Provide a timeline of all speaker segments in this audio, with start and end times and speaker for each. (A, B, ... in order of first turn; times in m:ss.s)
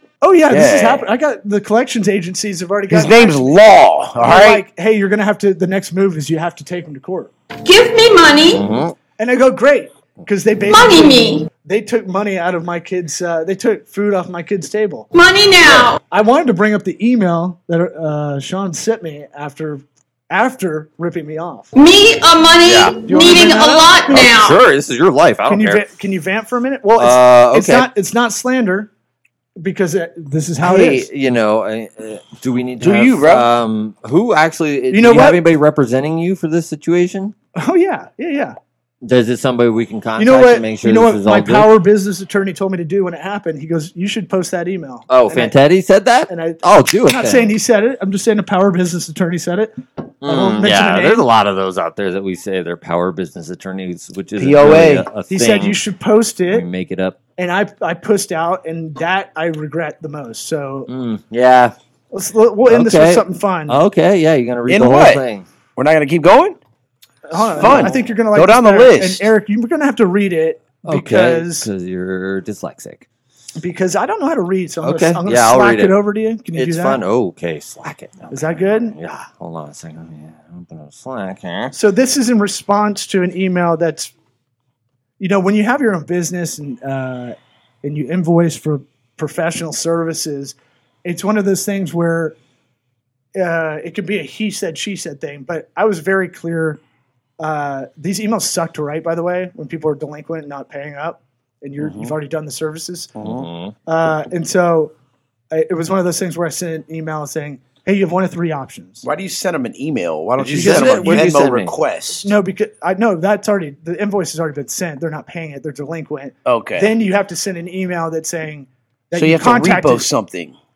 0:00.2-0:03.6 A
0:00.5-0:01.1 B
0:02.9-0:04.6 B
0:04.2-0:07.3 A
0:07.6-0:08.6 C
0:08.5-0:09.0 D
0:09.2-0:15.1 A
0:10.6-0:11.5 C
0:15.1-0:16.0 C
0:15.6-0:15.9 D
0:16.1-0:21.7 A
0:21.7-0:24.6 C
0:22.6-0:23.0 D
0:23.1-0:24.3 A
0:24.1-0:25.8 D
0:25.5-0:28.9 A
0:27.0-0:27.9 D
0:29.6-0:31.1 A
0:30.6-0:37.4 D
0:32.8-0:33.5 B
0:34.9-0:35.4 A
0:37.6-0:38.6 A
0:39.0-0:41.7 D
0:40.2-0:45.5 A
0:45.1-0:47.5 D
0:46.3-0:51.2 A
0:50.2-0:55.8 D
0:54.4-0:55.1 B
0:55.3-0:56.6 A
0:56.5-0:57.2 D
0:57.4-1:00.9 A
1:00.9-1:01.7 D
1:02.1-1:03.8 A
1:02.6-1:05.4 D
1:04.7-1:05.2 B
1:05.8-1:06.6 B
1:07.3-1:11.7 A
1:07.5-1:09.3 B
1:07.6-1:07.9 D
1:10.8-1:13.0 D
1:13.6-1:17.0 A
1:14.8-1:16.0 D
1:16.6-1:21.7 D
1:18.3-1:19.0 A
1:21.7-1:24.1 A
1:25.2-1:32.4 A
1:33.4-1:36.8 A
1:37.4-1:43.1 A
1:41.8-1:42.1 B
1:43.2-1:43.5 B
1:43.2-1:43.7 D
1:43.9-1:44.9 A
1:45.5-1:49.0 A
1:49.0-1:52.3 B
1:50.4-1:51.7 D
1:50.6-1:51.2 A
1:52.2-2:00.1 A
1:56.4-1:56.9 B
1:59.1-2:00.6 B